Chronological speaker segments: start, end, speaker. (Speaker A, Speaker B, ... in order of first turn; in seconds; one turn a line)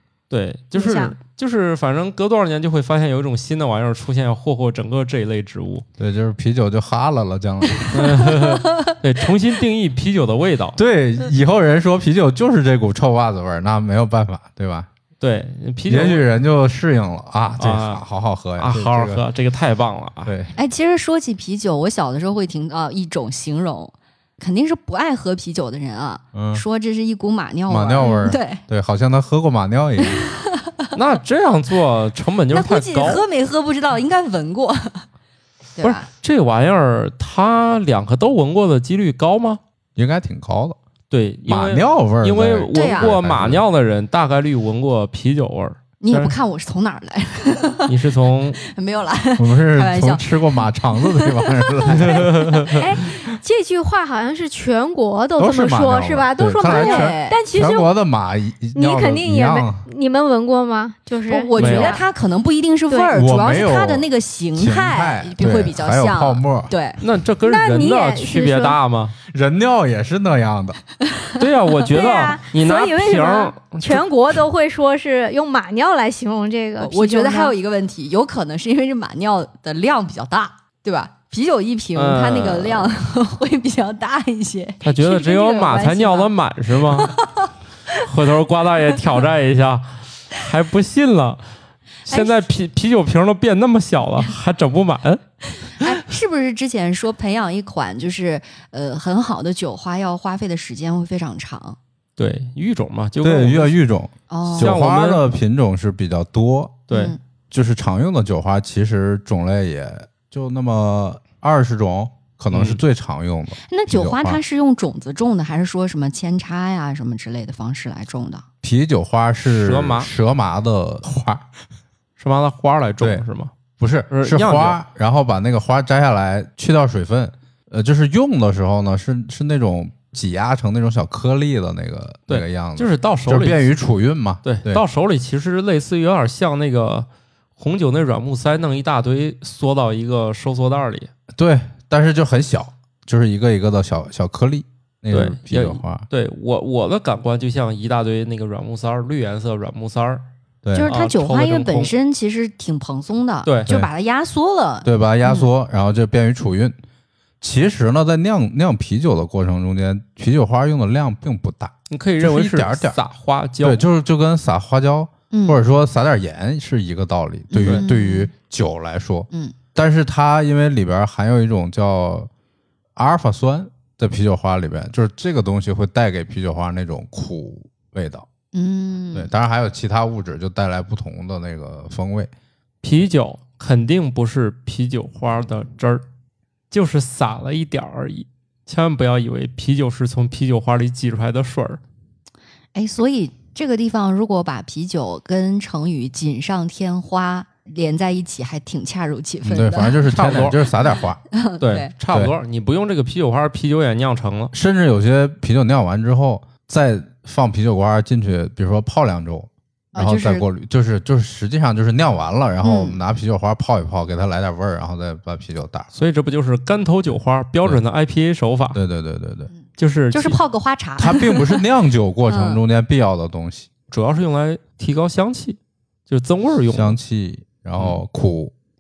Speaker A: 0.3-5.8
Speaker B: 0.7-1.1
Speaker C: 6.0-8.3
Speaker A: 7.9-10.8
Speaker C: 10.8-14.9
Speaker A: 15.2-16.2
Speaker C: 15.9-19.2
Speaker A: 17.6-18.0
Speaker A: 18.6-20.3
Speaker C: 20.2-20.5
Speaker D: 20.6-28.6
Speaker C: 26.3-26.6
Speaker C: 27.7-30.3
Speaker D: 30.0-30.9
Speaker A: 30.9-33.2
Speaker D: 32.5-35.0
Speaker D: 35.8-36.1
Speaker A: 35.8-39.6
Speaker C: 40.0-40.8
Speaker A: 41.1-46.4
Speaker C: 41.5-43.6
Speaker D: 42.7-43.2
Speaker D: 46.0-48.0
Speaker A: 47.9-48.6
Speaker D: 48.6-52.2
Speaker C: 49.4-52.5
Speaker A: 51.9-52.8
Speaker B: 52.8-57.9
Speaker C: 55.4-59.8
Speaker D: 56.6-57.4
Speaker B: 58.8-62.0
Speaker D: 61.3-67.0
Speaker A: 61.6-62.0
Speaker B: 62.9-63.1
Speaker C: 63.1-66.7
Speaker A: 67.0-69.2
Speaker B: 67.4-68.8
Speaker C: 69.3-70.8
Speaker A: 71.4-74.1
Speaker B: 71.8-77.5
Speaker D: 76.8-86.3
Speaker A: 82.0-82.9
Speaker A: 84.8-87.2
Speaker D: 86.8-87.5
Speaker A: 87.9-91.4
Speaker A: 92.1-95.2
Speaker D: 92.1-92.5
Speaker D: 95.7-101.8
Speaker A: 102.2-103.8
Speaker C: 103.2-106.9
Speaker D: 104.3-104.8
Speaker A: 104.5-105.2
Speaker A: 106.9-107.2
Speaker D: 106.9-107.2
Speaker C: 107.5-114.4
Speaker A: 112.5-112.8
Speaker D: 113.7-118.5
Speaker C: 118.6-121.5
Speaker A: 119.5-120.1
Speaker A: 122.2-123.5
Speaker C: 123.8-134.8
Speaker A: 124.1-124.8
Speaker A: 132.3-133.7
Speaker A: 134.4-141.1
Speaker C: 141.3-146.1
Speaker A: 145.1-150.2
Speaker C: 150.6-150.9
Speaker D: 150.7-155.5
Speaker A: 150.8-151.9
Speaker A: 153.4-153.7
Speaker C: 154.8-156.8
Speaker C: 157.4-163.0
Speaker A: 161.9-163.8
Speaker C: 163.6-172.3
Speaker D: 165.3-165.6
Speaker D: 167.5-168.3
Speaker C: 173.0-178.3
Speaker D: 178.5-179.3
Speaker C: 179.1-182.3
Speaker A: 182.8-186.0
Speaker A: 186.7-191.8
Speaker D: 192.8-200.0
Speaker C: 199.4-201.2
Speaker A: 200.1-200.6
Speaker D: 201.3-201.9
Speaker A: 201.6-204.5
Speaker C: 204.5-215.9
Speaker D: 209.9-210.5
Speaker D: 212.6-213.0
Speaker A: 215.9-218.8
Speaker C: 218.7-219.5
Speaker A: 219.8-220.4
Speaker D: 220.1-221.6
Speaker C: 221.0-223.7
Speaker D: 222.3-222.6
Speaker A: 223.9-227.0
Speaker C: 226.7-228.5